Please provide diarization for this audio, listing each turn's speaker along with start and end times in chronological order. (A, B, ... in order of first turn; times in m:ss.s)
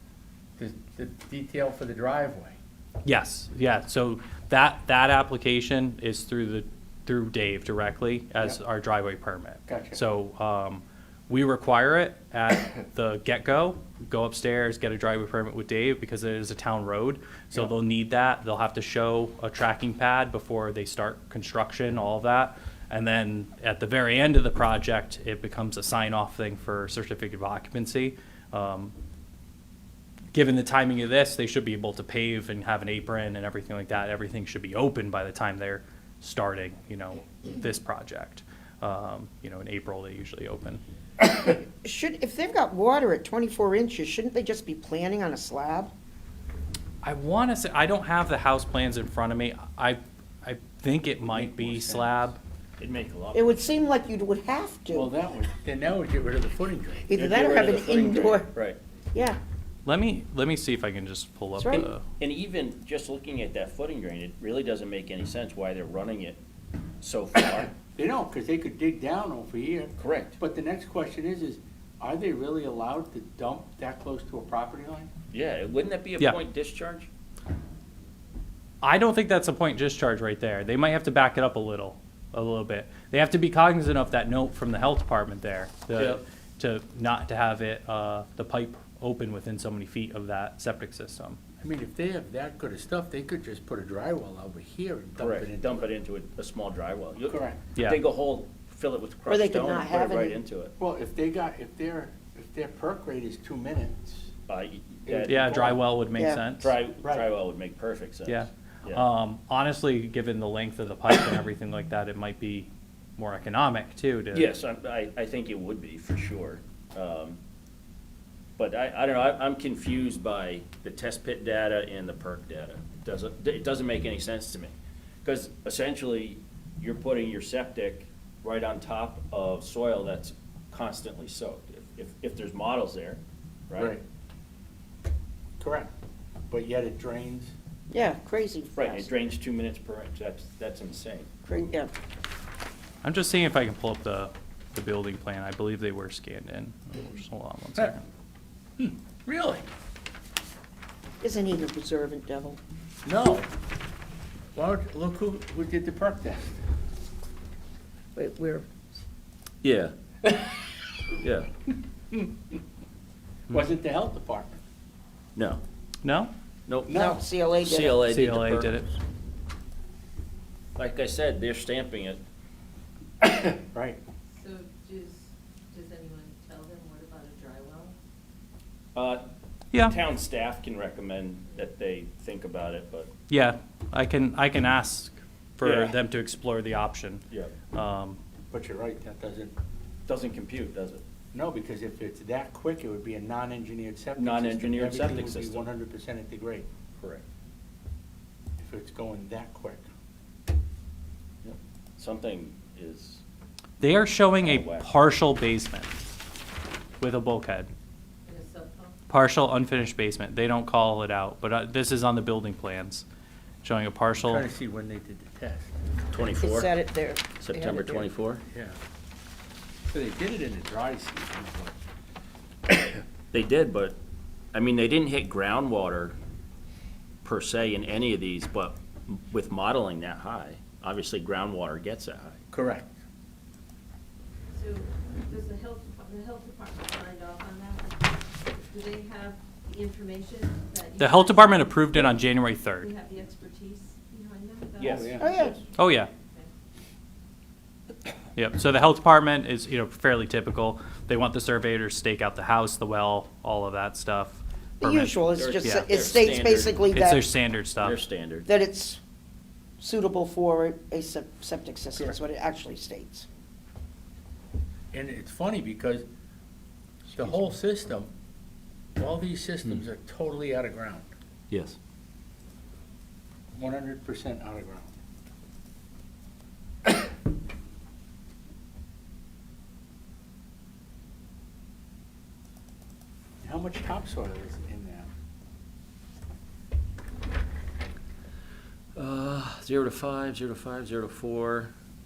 0:00.6-0:02.6 A
0:03.0-0:28.9 B
0:09.7-0:10.0 A
0:30.3-0:40.8 B
0:41.4-0:45.9 C
0:47.0-0:52.4 B
0:51.3-0:52.3 A
0:52.8-0:53.7 D
0:53.3-0:55.1 C
0:54.9-0:57.1 A
0:57.1-0:58.5 C
0:57.1-0:58.8 D
0:59.1-0:59.4 C
0:59.9-1:02.0 B
1:01.6-1:01.9 C
1:02.2-1:06.4 D
1:07.0-1:07.8 D
1:08.0-1:15.1 A
1:10.0-1:10.4 D
1:15.3-1:17.1 D
1:18.8-1:31.4 B
1:26.0-1:26.2 D
1:31.6-1:35.9 A
1:35.2-1:40.7 D
1:37.2-1:37.6 A
1:39.3-1:40.4 C
1:40.8-1:44.3 A
1:44.5-1:45.8 D
1:45.1-1:45.8 A
1:45.3-1:46.7 B
1:46.2-1:46.4 C
1:46.6-1:49.1 D
1:48.3-1:54.5 B
1:54.3-1:57.4 D
1:58.6-2:04.7 D
2:05.2-2:14.0 D
2:13.8-2:14.0 A
2:15.6-2:15.9 A
2:16.5-2:17.5 A
2:17.9-2:19.1 C
2:18.8-2:21.3 D
2:21.5-2:21.9 C
2:23.0-2:28.0 B
2:28.8-2:29.7 A
2:31.2-2:32.6 C
2:33.0-2:33.5 A
2:34.6-2:36.6 A
2:38.2-2:38.7 C
2:39.6-2:39.9 D
2:40.2-2:40.5 A
2:41.2-2:41.5 D
2:43.5-2:44.6 A
2:45.4-2:45.6 D
2:46.0-2:46.3 B
2:46.7-2:48.8 D
2:46.9-2:48.0 C
2:48.0-2:48.9 B
2:50.8-2:52.2 D
2:53.2-2:54.0 A
2:54.3-2:58.0 E
2:59.0-3:03.1 D
2:59.7-3:00.0 B
3:03.3-3:08.2 B
3:05.6-3:06.0 D
3:07.3-3:07.6 D
3:08.5-3:09.5 A
3:10.1-3:11.0 D
3:11.3-3:16.7 A
3:14.2-3:15.6 D
3:17.0-3:17.2 D
3:18.6-3:19.9 A
3:21.4-3:23.2 D
3:23.8-3:26.0 B
3:24.4-3:24.9 D
3:27.0-3:27.7 B
3:28.3-3:29.0 E
3:29.1-3:33.0 B
3:33.6-3:34.5 B
3:34.2-3:35.7 A
3:36.1-3:36.7 D
3:36.4-3:38.1 C
3:37.4-3:38.4 D
3:38.5-3:38.8 A
3:39.9-3:41.8 A
3:43.3-3:44.0 D
3:44.5-3:46.2 D
3:47.2-3:52.4 D
3:52.5-3:53.0 A
3:54.5-4:06.5 E
4:01.0-4:02.9 B
4:04.8-4:05.4 A
4:04.8-4:05.6 D
4:05.2-4:05.6 C
4:05.8-4:06.1 B
4:08.4-4:15.9 B
4:14.8-4:17.3 C
4:15.3-4:16.8 D
4:16.9-4:18.0 B
4:17.8-4:18.5 D
4:18.5-4:19.0 C
4:19.8-4:23.3 C
4:24.9-4:26.1 A
4:27.1-4:28.1 A
4:29.0-4:31.1 A
4:31.5-4:31.8 D
4:33.6-4:35.0 A
4:43.4-4:45.1 A
4:49.0-4:51.7 D